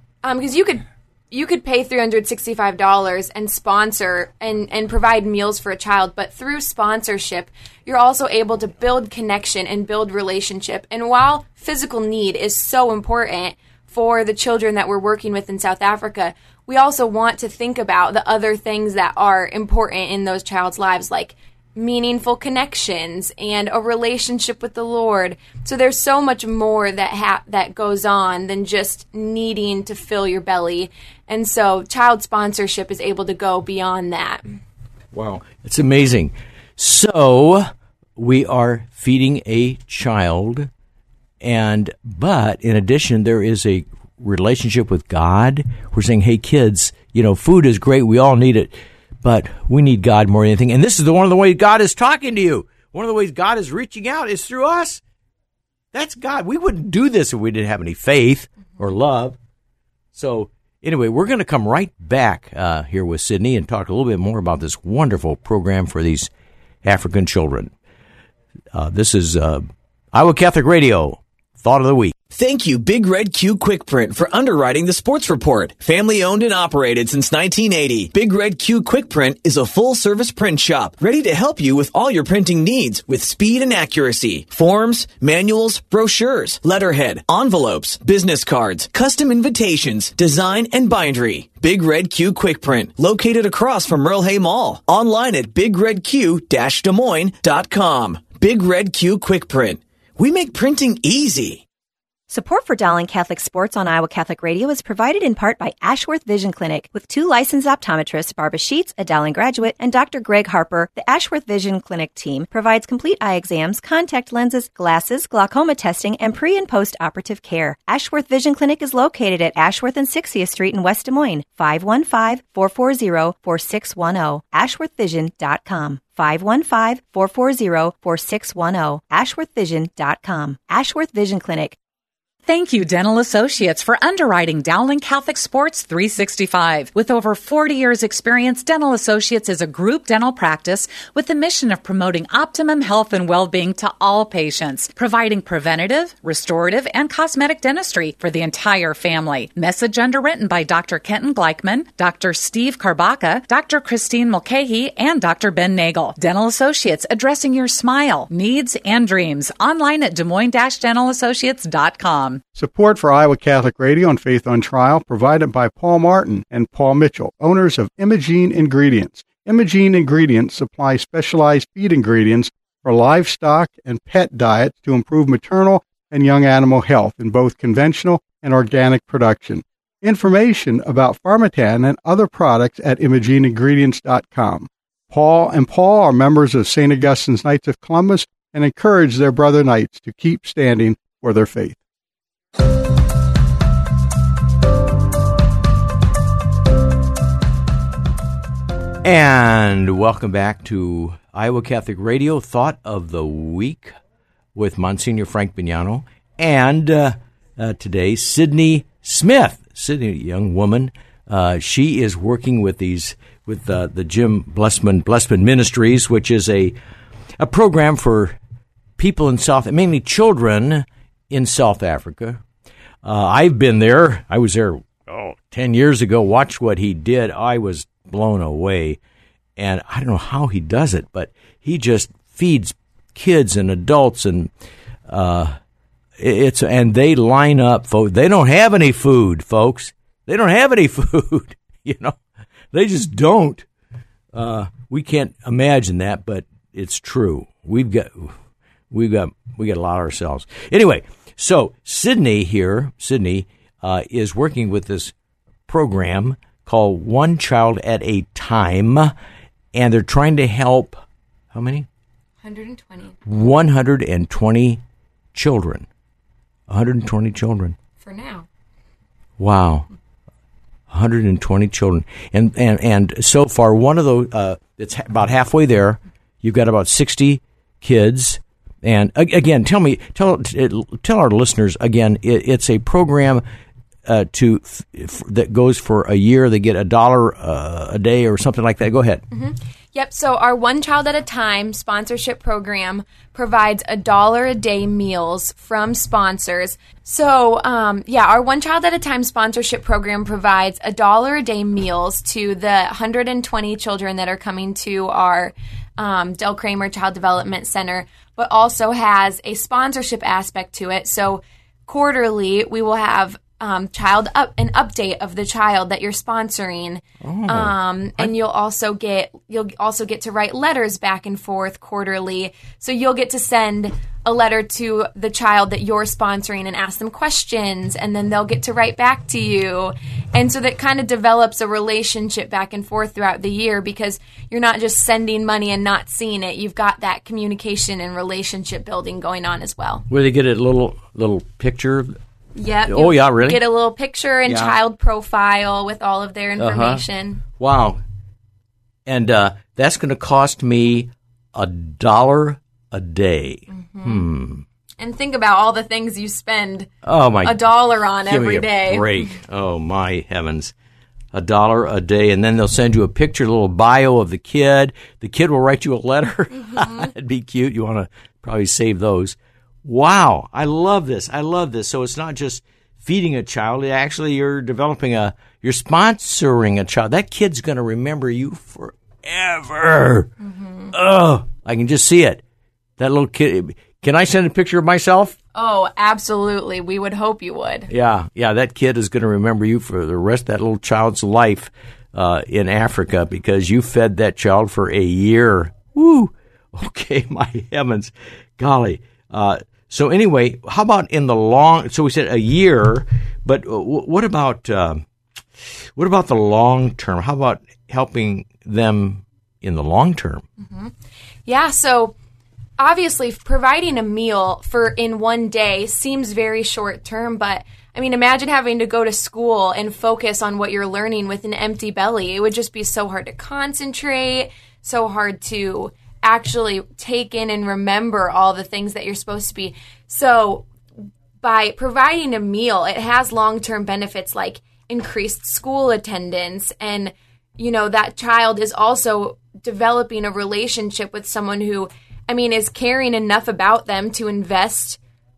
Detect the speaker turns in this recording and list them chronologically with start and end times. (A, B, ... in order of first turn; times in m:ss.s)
0:00.2-0:34.4 A
0:35.1-0:40.7 B
0:41.4-0:55.0 B
0:55.9-0:59.4 B
1:00.1-1:06.3 B
1:06.8-1:07.7 B
1:08.7-1:12.1 B
1:12.3-1:41.6 C
1:42.3-2:11.8 D
2:12.5-2:42.4 E
2:42.5-3:11.8 F
3:19.0-3:23.9 B
3:24.6-3:36.8 B
3:37.4-3:38.4 B
3:39.0-3:42.4 B
3:43.0-3:49.0 B
3:49.6-3:54.5 B
3:55.1-3:55.5 B
3:56.2-4:02.2 B
4:02.7-4:03.6 B
4:04.3-4:08.3 B
4:08.9-4:15.1 B
4:15.7-4:19.1 B
4:19.7-4:21.0 B
4:21.5-4:21.9 B
4:22.4-4:23.2 A
4:23.2-4:24.8 B
4:25.3-4:25.9 B
4:26.7-4:27.8 B
4:28.0-4:28.5 A
4:29.4-4:29.9 B
4:30.9-4:43.4 B
4:44.0-4:49.2 B
4:49.3-5:40.0 A
5:17.2-5:18.3 B
5:40.1-5:42.2 B
5:42.6-5:47.4 A
5:42.9-5:43.6 B
5:44.5-5:44.7 B
5:46.6-5:47.0 B
5:47.6-5:48.0 B
5:49.0-5:54.6 B
5:53.7-5:54.2 A
5:55.0-5:56.9 A
5:57.0-5:57.6 B
5:57.4-5:59.4 A
5:58.2-6:00.7 B
6:01.3-6:20.3 B
6:06.7-6:07.0 A
6:20.4-6:20.9 A
6:20.9-6:22.4 B
6:23.0-6:25.4 B
6:25.5-6:27.9 A
6:27.9-6:45.0 B
6:46.0-6:50.4 B
6:50.6-6:50.9 A
6:51.4-6:52.1 A
6:52.8-7:10.7 A
7:11.4-7:25.0 A